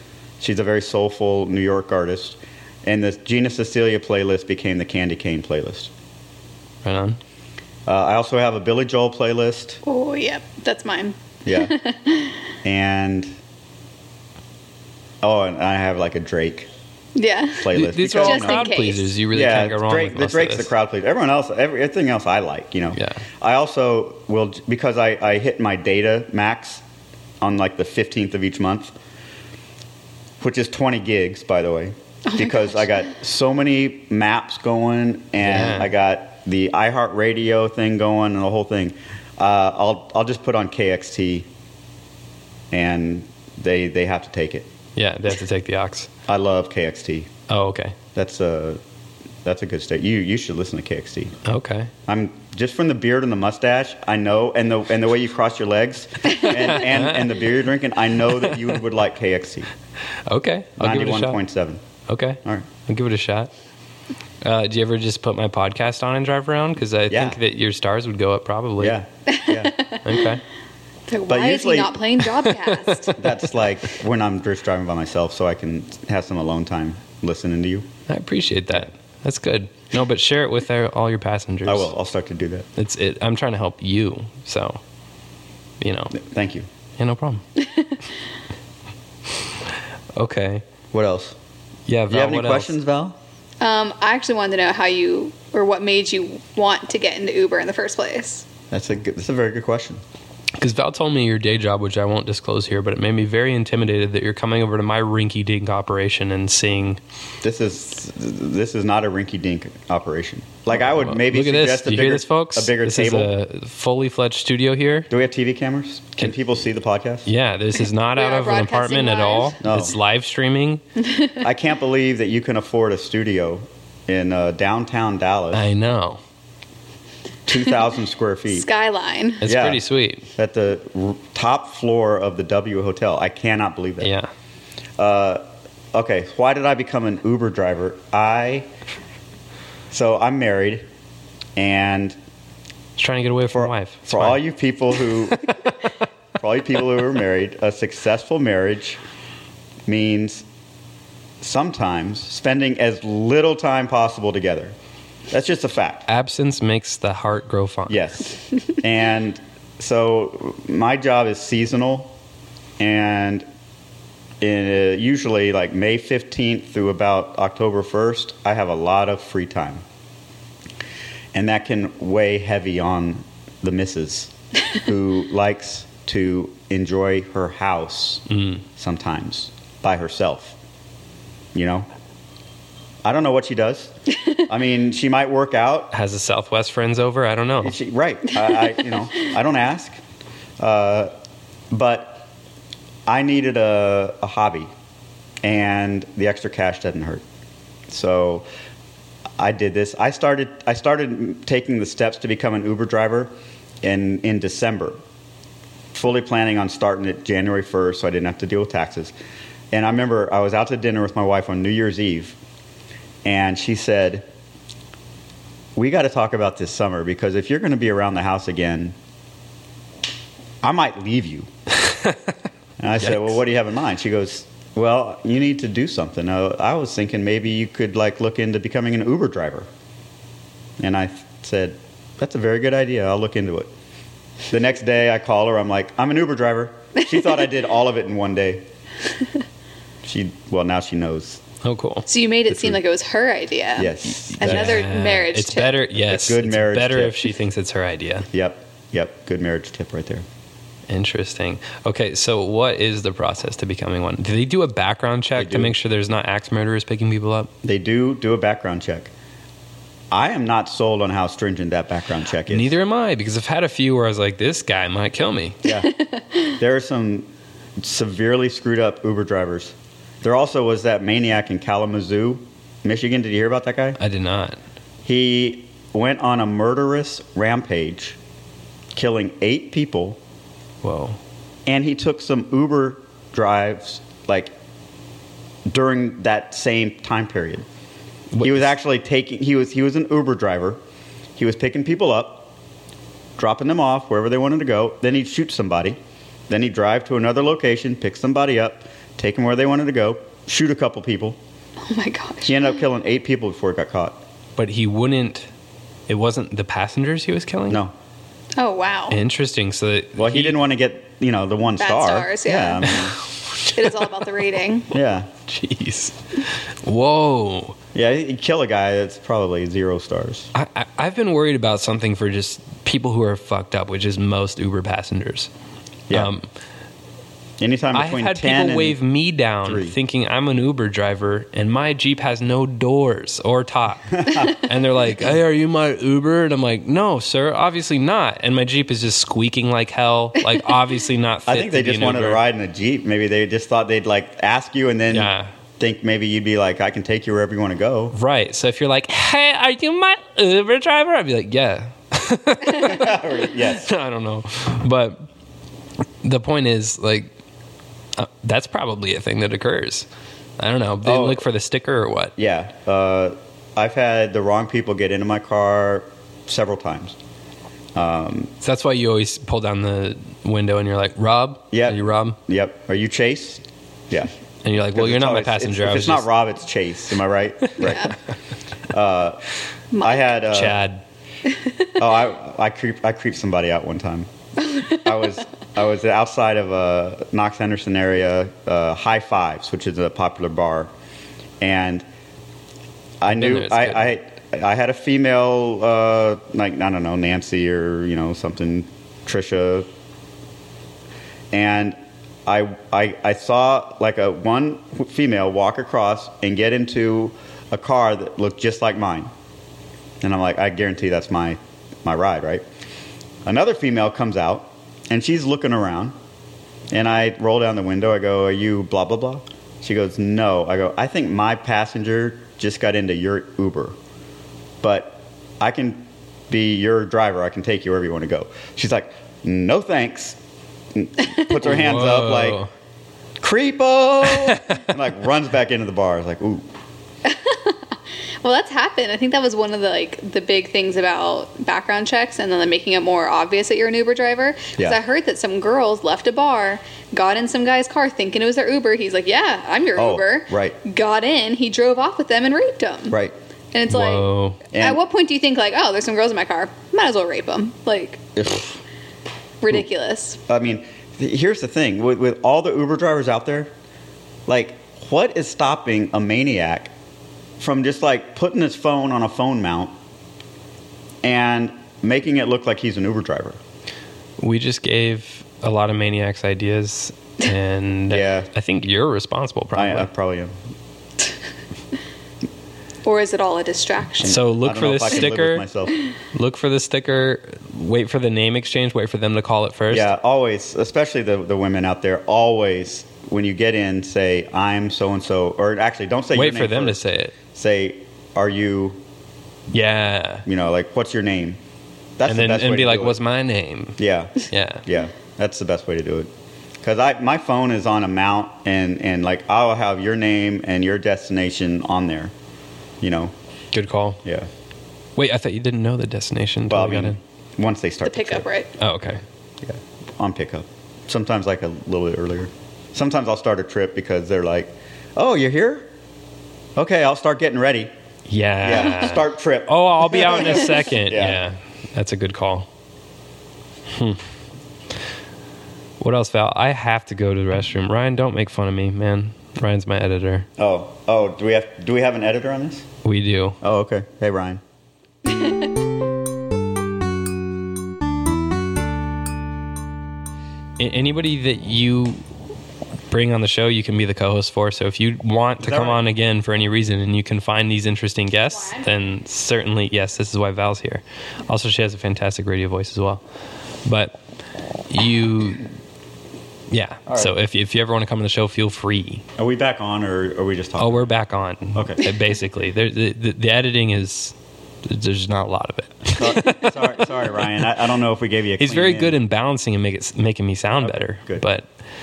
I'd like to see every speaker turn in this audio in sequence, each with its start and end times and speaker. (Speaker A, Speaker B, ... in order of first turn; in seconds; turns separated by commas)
Speaker A: 0.4-5.9, Speaker B: 6.8-7.2, Speaker A: 7.9-9.8, Speaker C: 9.8-12.3, Speaker A: 11.5-11.8, Speaker A: 12.6-13.3, Speaker A: 15.2-16.7, Speaker C: 17.1-19.1, Speaker A: 17.6-18.6, Speaker B: 17.7-20.7, Speaker A: 19.3-26.8, Speaker B: 22.9-23.2, Speaker A: 27.4-28.9, Speaker A: 30.4-41.5, Speaker C: 32.3-33.0, Speaker B: 35.4-35.9, Speaker A: 42.7-44.7, Speaker B: 45.0-46.1, Speaker A: 46.3-47.3, Speaker B: 47.5-48.0, Speaker A: 48.1-48.8, Speaker A: 49.5-51.4, Speaker B: 51.5-51.9, Speaker A: 52.1-59.7, Speaker B: 56.5-57.3, Speaker B: 60.3-61.4, Speaker A: 60.8-61.8, Speaker B: 62.1-63.5, Speaker B: 64.4-69.0, Speaker A: 67.1-67.4, Speaker A: 68.8-69.8, Speaker C: 69.3-70.0, Speaker B: 70.0-70.4, Speaker C: 71.1-73.2, Speaker A: 71.3-72.0, Speaker B: 72.4-73.1, Speaker A: 73.2-77.9, Speaker B: 78.1-81.9, Speaker A: 81.7-82.7, Speaker B: 82.8-84.8, Speaker B: 85.8-86.2, Speaker A: 86.1-86.7, Speaker B: 87.0-87.4, Speaker B: 90.2-90.6, Speaker A: 90.9-91.4, Speaker B: 91.9-92.7, Speaker A: 92.1-93.2, Speaker C: 93.6-98.5, Speaker A: 98.7-100.0, Speaker B: 100.6-107.0, Speaker A: 107.4-113.3, Speaker B: 110.8-115.1, Speaker A: 115.1-117.3, Speaker B: 117.3-120.8, Speaker C: 118.2-119.6, Speaker A: 119.6-120.0, Speaker C: 121.1-121.4, Speaker A: 121.4-125.7, Speaker B: 125.5-126.2, Speaker A: 127.5-128.7, Speaker C: 128.5-129.4, Speaker B: 129.4-130.3, Speaker A: 129.4-134.1, Speaker B: 134.0-134.3, Speaker A: 135.0-138.7, Speaker A: 139.9-140.9, Speaker A: 141.6-142.2, Speaker B: 143.0-144.4, Speaker A: 143.5-145.5, Speaker A: 146.4-149.0, Speaker A: 149.9-150.4, Speaker A: 151.4-154.8, Speaker A: 155.3-156.1, Speaker B: 156.1-158.0, Speaker A: 157.9-162.1, Speaker A: 162.8-163.5, Speaker A: 164.4-169.8, Speaker A: 171.3-180.6, Speaker B: 178.3-178.6, Speaker A: 181.5-181.9, Speaker A: 183.0-185.9, Speaker B: 185.9-187.8, Speaker A: 187.6-190.0, Speaker A: 190.6-191.1, Speaker A: 191.7-192.3, Speaker A: 193.1-194.7, Speaker A: 195.4-197.2, Speaker A: 197.9-198.5, Speaker A: 199.4-203.3, Speaker A: 203.8-205.0, Speaker A: 205.9-209.1, Speaker A: 209.7-212.4, Speaker A: 213.2-214.3, Speaker A: 215.8-219.0, Speaker A: 220.6-221.5, Speaker B: 221.9-222.2, Speaker A: 222.8-229.7, Speaker B: 223.0-223.3, Speaker A: 230.8-233.7, Speaker A: 234.5-238.7, Speaker A: 240.0-241.4, Speaker B: 241.6-242.1, Speaker C: 242.1-245.8, Speaker A: 242.5-242.8, Speaker A: 243.8-244.9, Speaker B: 244.2-248.3, Speaker A: 246.0-247.3, Speaker A: 248.3-250.3, Speaker B: 250.9-257.5, Speaker A: 255.4-255.8, Speaker A: 257.6-259.1, Speaker A: 260.1-262.8, Speaker B: 262.5-265.6, Speaker A: 265.6-265.9, Speaker A: 266.5-274.0, Speaker B: 274.0-274.6, Speaker A: 275.1-278.2, Speaker A: 278.9-280.2, Speaker B: 280.8-281.2, Speaker A: 281.7-284.5, Speaker A: 285.7-287.7, Speaker B: 288.3-288.7, Speaker A: 288.4-290.8, Speaker A: 291.4-292.5, Speaker A: 293.4-296.0, Speaker A: 296.5-301.4, Speaker C: 301.8-302.6, Speaker A: 302.4-304.2, Speaker B: 304.6-305.5, Speaker B: 306.1-307.8, Speaker A: 307.7-307.9, Speaker C: 308.6-309.2, Speaker B: 309.1-310.6, Speaker A: 310.2-313.2, Speaker C: 311.8-313.0, Speaker C: 313.7-314.9, Speaker A: 314.9-315.3, Speaker B: 315.5-317.8, Speaker A: 317.9-320.5, Speaker B: 320.5-325.5, Speaker B: 326.1-326.5, Speaker A: 327.6-329.0, Speaker B: 327.9-342.4, Speaker A: 329.6-330.0, Speaker A: 334.1-334.6, Speaker A: 341.5-348.1, Speaker B: 345.1-345.5, Speaker B: 348.1-355.3, Speaker A: 352.7-353.9, Speaker B: 356.2-357.3, Speaker B: 358.2-360.1, Speaker B: 360.6-362.4, Speaker A: 361.0-361.4, Speaker A: 362.4-367.2, Speaker A: 367.9-368.5, Speaker B: 368.6-372.4, Speaker A: 371.7-374.3, Speaker B: 374.6-376.3, Speaker A: 374.9-378.1, Speaker C: 377.8-378.1, Speaker A: 378.9-379.4, Speaker C: 379.9-380.4, Speaker A: 380.0-380.8, Speaker B: 380.5-381.0, Speaker C: 381.6-381.9, Speaker A: 382.0-384.3, Speaker C: 384.6-385.1, Speaker A: 384.9-390.9, Speaker A: 391.6-392.1, Speaker A: 393.2-399.9, Speaker B: 393.3-394.1, Speaker A: 401.5-409.3, Speaker A: 410.2-412.6, Speaker A: 413.5-416.1, Speaker A: 416.9-424.0, Speaker A: 424.8-430.4, Speaker A: 430.9-432.6, Speaker B: 431.6-432.7, Speaker A: 433.4-436.7, Speaker B: 434.4-434.8, Speaker C: 437.2-437.8, Speaker C: 438.4-453.2, Speaker A: 450.0-450.8, Speaker A: 453.1-453.4, Speaker C: 453.7-458.3, Speaker B: 453.9-454.6, Speaker A: 454.7-455.0, Speaker A: 458.4-458.8, Speaker C: 459.6-460.4, Speaker A: 460.5-463.7, Speaker A: 464.5-466.9, Speaker A: 467.6-469.9, Speaker A: 471.2-473.6, Speaker B: 474.4-480.1, Speaker A: 478.1-478.5, Speaker A: 479.8-480.5, Speaker C: 483.1-484.4, Speaker A: 484.2-486.0, Speaker B: 484.2-485.7, Speaker B: 486.3-490.1, Speaker A: 489.9-497.0, Speaker B: 496.3-497.3, Speaker A: 497.5-499.0, Speaker B: 499.7-500.4, Speaker A: 500.5-501.6, Speaker A: 502.2-503.2, Speaker B: 502.3-504.9, Speaker A: 504.0-506.3, Speaker A: 506.8-512.3, Speaker A: 513.0-513.3, Speaker B: 513.7-514.2, Speaker B: 515.2-517.2, Speaker A: 516.7-518.5, Speaker C: 518.0-518.7, Speaker B: 518.8-519.2, Speaker A: 519.6-525.9, Speaker A: 526.8-527.9, Speaker B: 528.3-532.7, Speaker A: 528.6-531.4, Speaker B: 533.9-534.2, Speaker B: 536.0-540.5, Speaker A: 540.6-542.9, Speaker B: 543.0-543.6, Speaker A: 543.6-544.6, Speaker B: 550.8-552.2, Speaker B: 553.1-563.2, Speaker A: 555.6-556.0, Speaker B: 563.9-564.2, Speaker B: 564.9-565.7, Speaker B: 566.7-569.2, Speaker A: 567.1-567.3, Speaker A: 569.4-571.1, Speaker B: 570.8-577.1, Speaker A: 571.8-572.1, Speaker A: 576.1-579.2, Speaker B: 578.6-581.7, Speaker A: 580.8-581.5